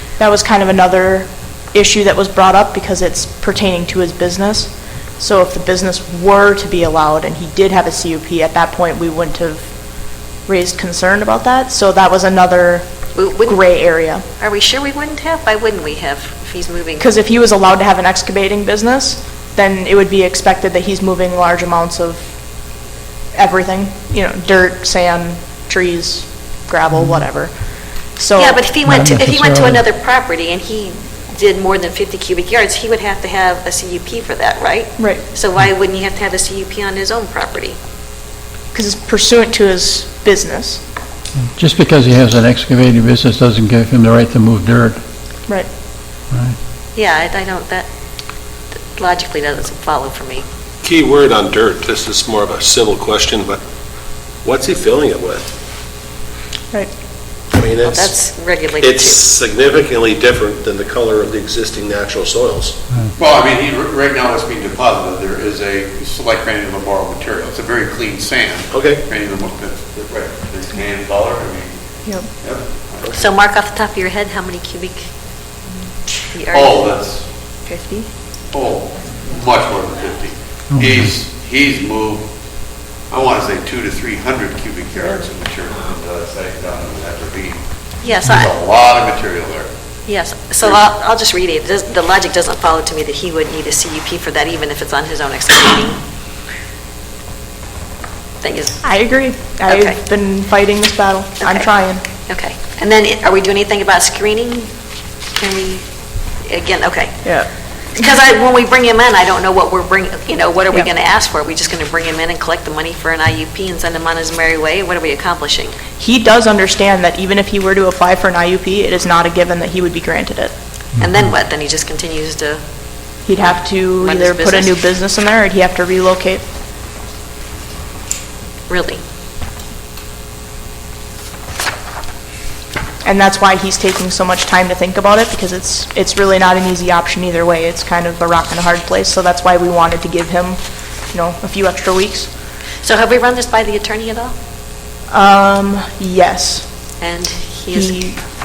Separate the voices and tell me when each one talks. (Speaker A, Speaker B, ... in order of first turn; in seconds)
Speaker A: 0.2-9.7, 10.4-14.2, 17.0-22.3, 23.3-28.6, 38.7-40.8, 77.7-78.1, 98.8-102.0, 116.0-120.5, 123.2-126.4, 133.0-140.6, 141.1-142.3, 145.1-146.6, 147.7-148.2
Speaker B: 13.1-13.6, 14.4-17.2, 28.4-37.8, 46.9-47.9, 48.9-50.4, 57.9-59.2, 73.1-75.1, 76.3-76.8, 88.0-88.5, 90.0-96.0, 98.4-98.8, 99.7-100.0, 101.4-101.7, 102.3-104.7, 105.3-105.8, 106.4-107.3, 107.9-115.8, 121.0-122.6, 124.0-124.7, 128.7-129.0, 142.8-144.3, 147.0-148.0
Speaker C: 28.8-29.8, 41.4-45.0, 46.3-46.5, 80.7-81.0
Speaker D: 50.8-53.6, 54.4-55.5, 57.5-58.1, 58.8-62.8, 68.7-69.0
Speaker E: 63.2-71.7, 72.4-73.1, 76.5-77.2, 78.5-82.2, 83.1-87.6, 88.3-89.7